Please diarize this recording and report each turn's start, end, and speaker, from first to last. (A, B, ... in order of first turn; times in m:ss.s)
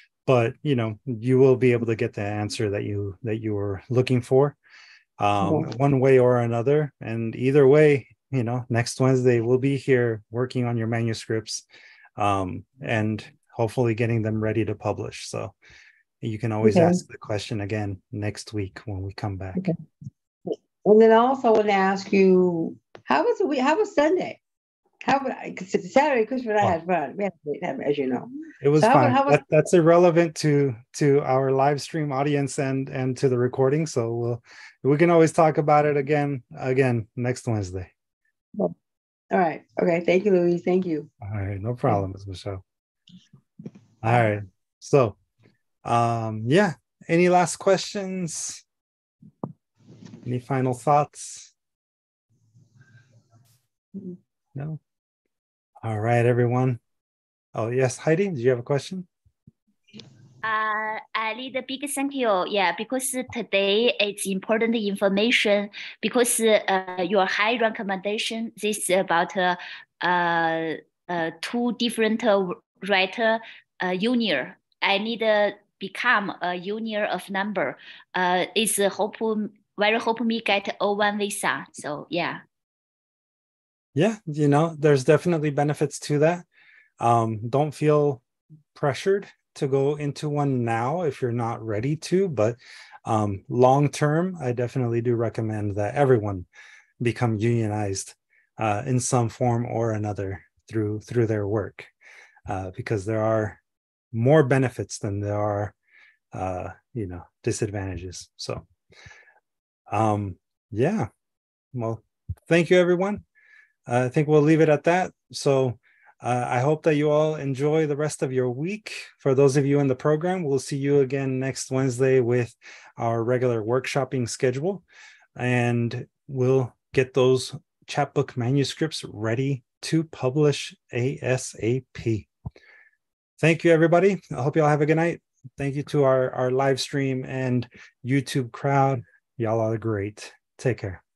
0:00.2-0:04.6 A
0:05.2-0:11.6 A
0:05.4-0:05.7 B
0:12.2-0:15.5 A
0:16.2-0:19.7 A
0:16.6-0:17.0 B
0:20.4-0:24.4 B
0:25.0-0:29.4 B
0:28.6-0:37.9 A
0:39.3-0:41.1 B
0:41.2-0:42.6 A
0:44.0-0:45.2 A
0:45.8-0:48.6 A
0:50.2-0:51.5 A
0:54.5-0:54.8 A
0:55.8-0:56.8 A
0:57.5-0:59.1 A
1:00.4-1:22.4 C
1:23.9-1:26.4 A
1:27.0-1:28.2 A
1:28.7-1:36.5 A
1:37.0-1:41.9 A
1:42.5-1:43.6 A
1:44.1-1:45.7 A
1:46.3-1:48.6 A
1:49.9-1:51.1 A
1:51.7-1:53.2 A
1:53.9-2:04.8 A
2:05.4-2:12.3 A
2:13.4-2:21.0 A